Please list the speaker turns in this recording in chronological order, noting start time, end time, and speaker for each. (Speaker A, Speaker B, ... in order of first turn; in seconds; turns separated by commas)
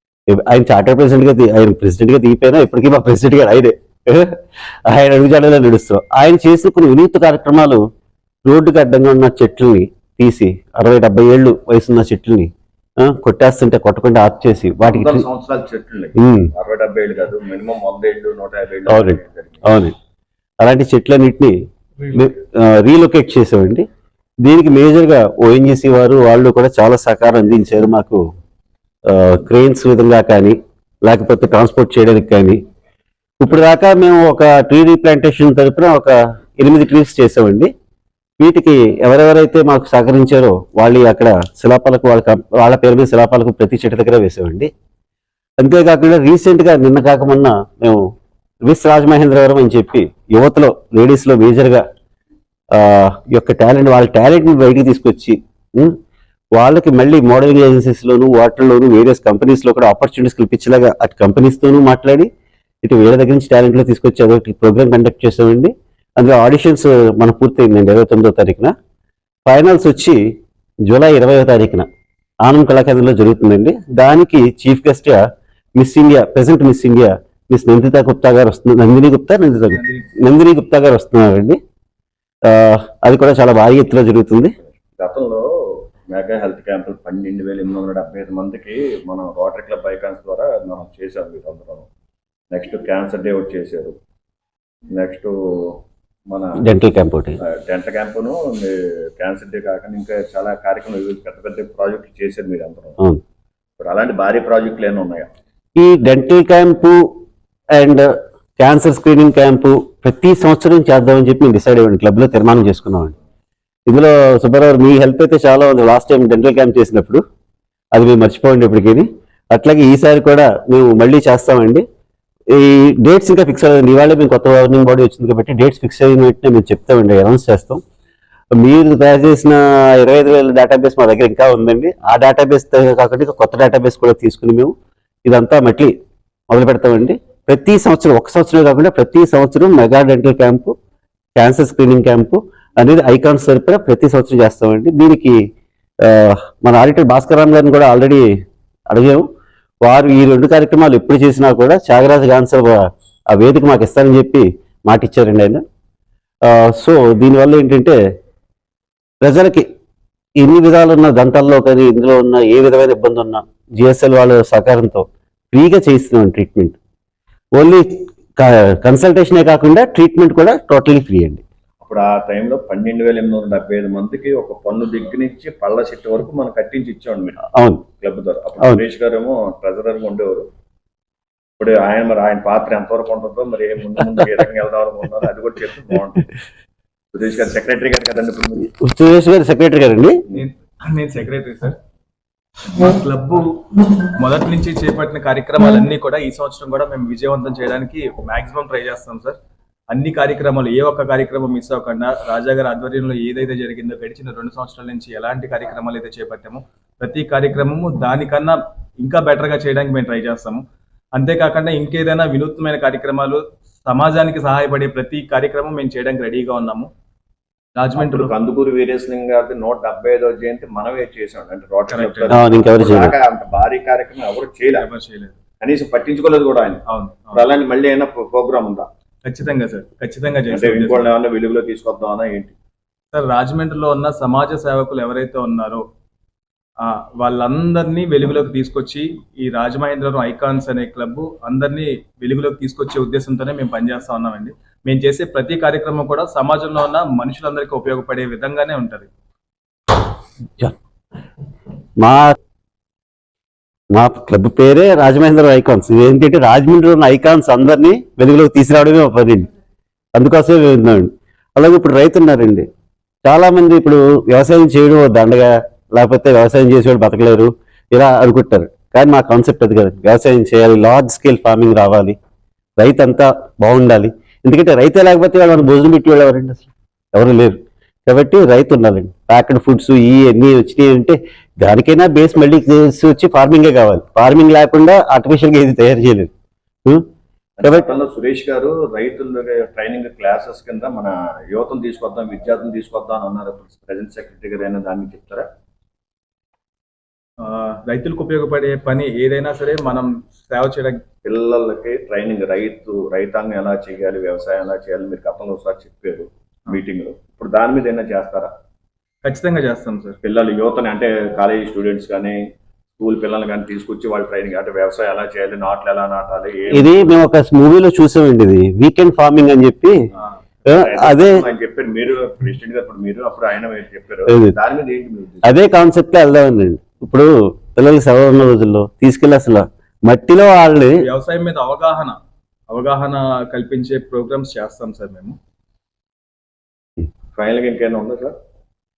Speaker A: 0.3-7.8, Speaker A: 8.4-15.2, Speaker B: 14.8-19.7, Speaker A: 16.2-16.5, Speaker A: 18.9-19.9, Speaker A: 20.6-21.5, Speaker A: 22.1-23.9, Speaker A: 24.4-28.2, Speaker A: 29.1-32.6, Speaker A: 33.4-37.7, Speaker A: 38.4-44.7, Speaker A: 45.6-48.0, Speaker A: 48.6-51.8, Speaker A: 52.7-55.9, Speaker A: 56.5-62.3, Speaker A: 62.8-68.7, Speaker A: 69.5-70.2, Speaker A: 70.9-71.8, Speaker A: 72.4-81.6, Speaker C: 79.7-80.1, Speaker A: 82.5-84.5, Speaker B: 84.9-91.9, Speaker B: 92.5-93.9, Speaker B: 94.9-95.8, Speaker B: 96.3-96.6, Speaker A: 96.6-97.4, Speaker B: 97.4-103.0, Speaker B: 103.8-105.3, Speaker A: 105.8-107.0, Speaker A: 107.8-113.1, Speaker A: 113.9-117.2, Speaker A: 117.9-121.8, Speaker A: 122.5-127.8, Speaker A: 128.6-134.7, Speaker A: 135.2-135.9, Speaker A: 136.5-140.7, Speaker A: 141.3-145.4, Speaker A: 146.0-148.3, Speaker A: 148.9-149.2, Speaker A: 149.8-155.6, Speaker A: 156.5-158.0, Speaker A: 159.2-159.6, Speaker A: 160.4-166.8, Speaker A: 167.6-171.4, Speaker B: 171.8-177.4, Speaker A: 177.5-177.8, Speaker B: 178.0-180.4, Speaker B: 181.6-186.3, Speaker B: 187.1-188.7, Speaker A: 188.8-190.2, Speaker C: 190.3-191.8, Speaker C: 192.7-199.4, Speaker C: 199.9-210.6, Speaker C: 211.2-216.9, Speaker C: 217.8-218.3, Speaker B: 217.9-224.9, Speaker C: 221.9-222.4, Speaker A: 222.3-223.1, Speaker C: 224.8-225.4, Speaker B: 225.6-228.9, Speaker C: 226.9-227.4, Speaker C: 229.2-231.1, Speaker B: 230.5-232.5, Speaker C: 233.1-235.8, Speaker C: 236.8-249.1, Speaker A: 252.0-252.3, Speaker A: 253.9-259.5, Speaker A: 260.1-262.7, Speaker A: 263.2-272.1, Speaker A: 272.8-286.3, Speaker B: 287.6-295.4, Speaker C: 297.4-301.0, Speaker B: 301.2-308.5, Speaker C: 309.2-310.2, Speaker B: 310.2-312.4, Speaker B: 313.0-317.2, Speaker A: 316.7-319.9, Speaker A: 320.7-321.4, Speaker B: 320.7-325.6, Speaker A: 324.3-324.5, Speaker A: 325.4-331.0, Speaker C: 331.0-332.1, Speaker C: 332.7-335.4, Speaker B: 337.3-338.3